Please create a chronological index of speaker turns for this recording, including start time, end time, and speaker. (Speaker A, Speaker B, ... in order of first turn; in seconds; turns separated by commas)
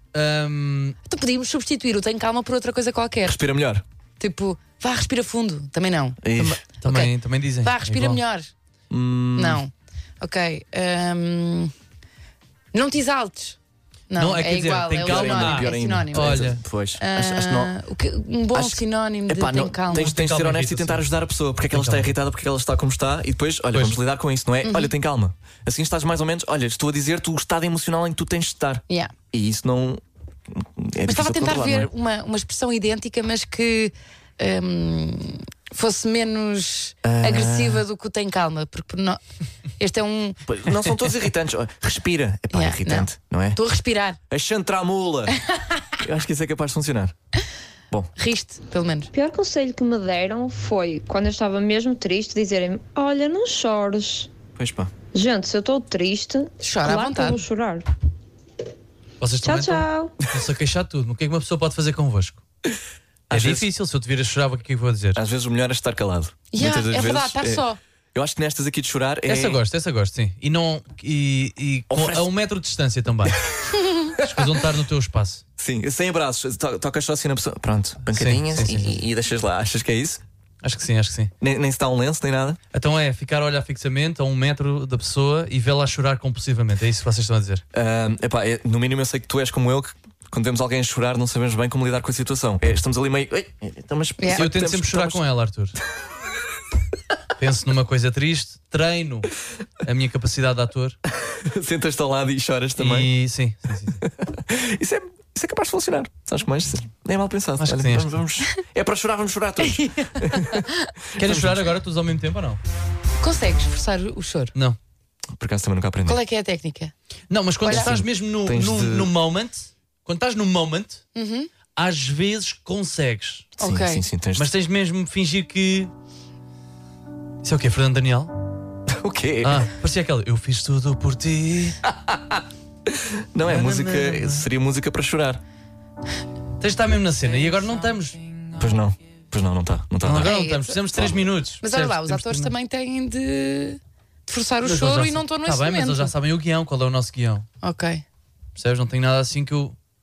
Speaker A: 0.1-0.9, Speaker B: 1.1-3.4, Speaker C: 3.2-3.8, Speaker B: 4.2-6.2, Speaker C: 6.2-6.6, Speaker A: 6.4-8.2, Speaker B: 6.8-7.1, Speaker B: 7.6-8.5, Speaker C: 8.9-9.6, Speaker B: 9.4-11.7, Speaker B: 12.7-13.6, Speaker B: 14.1-16.4, Speaker A: 14.2-16.6, Speaker C: 15.0-17.7, Speaker B: 17.0-20.1, Speaker C: 18.5-31.9, Speaker A: 19.9-21.0, Speaker A: 21.7-22.1, Speaker B: 24.6-24.9, Speaker B: 31.1-39.2, Speaker C: 37.0-37.8, Speaker B: 39.8-40.4, Speaker C: 40.5-43.6, Speaker B: 42.5-44.2, Speaker C: 44.3-45.4, Speaker C: 46.0-47.1, Speaker B: 48.2-49.1, Speaker D: 49.1-54.3, Speaker C: 54.6-54.9, Speaker D: 55.1-57.9, Speaker B: 56.6-57.4, Speaker A: 59.2-62.4, Speaker D: 59.4-60.1, Speaker C: 63.3-63.7, Speaker A: 63.3-65.2, Speaker C: 65.1-69.6, Speaker B: 66.5-67.8, Speaker A: 69.2-73.4, Speaker C: 71.9-72.3, Speaker C: 74.2-74.5, Speaker A: 74.2-75.4, Speaker C: 75.6-80.2, Speaker A: 78.0-79.0, Speaker A: 80.6-81.3, Speaker C: 81.4-82.6, Speaker A: 82.7-87.6, Speaker C: 87.7-95.2, Speaker B: 94.2-94.4, Speaker A: 94.3-95.8, Speaker A: 97.4-99.3, Speaker A: 99.8-100.9, Speaker C: 101.2-103.1, Speaker A: 102.8-104.0, Speaker C: 104.0-111.7, Speaker A: 107.6-108.2, Speaker B: 109.7-110.7, Speaker A: 111.1-112.6, Speaker B: 113.2-114.5, Speaker C: 115.3-116.2, Speaker B: 116.0-116.9, Speaker A: 117.3-121.0, Speaker B: 117.6-117.9, Speaker C: 117.7-119.1, Speaker B: 121.1-121.5, Speaker A: 121.8-123.5, Speaker B: 123.6-124.0, Speaker C: 123.6-124.5, Speaker A: 124.3-125.9, Speaker A: 127.4-128.3, Speaker C: 128.9-129.7, Speaker A: 129.4-131.8, Speaker C: 131.8-135.4, Speaker A: 133.4-134.5, Speaker A: 136.6-138.2, Speaker C: 138.6-140.3, Speaker A: 140.0-142.5, Speaker B: 140.2-141.1, Speaker B: 141.6-146.1, Speaker A: 144.6-147.4, Speaker B: 147.6-148.0, Speaker A: 148.6-149.7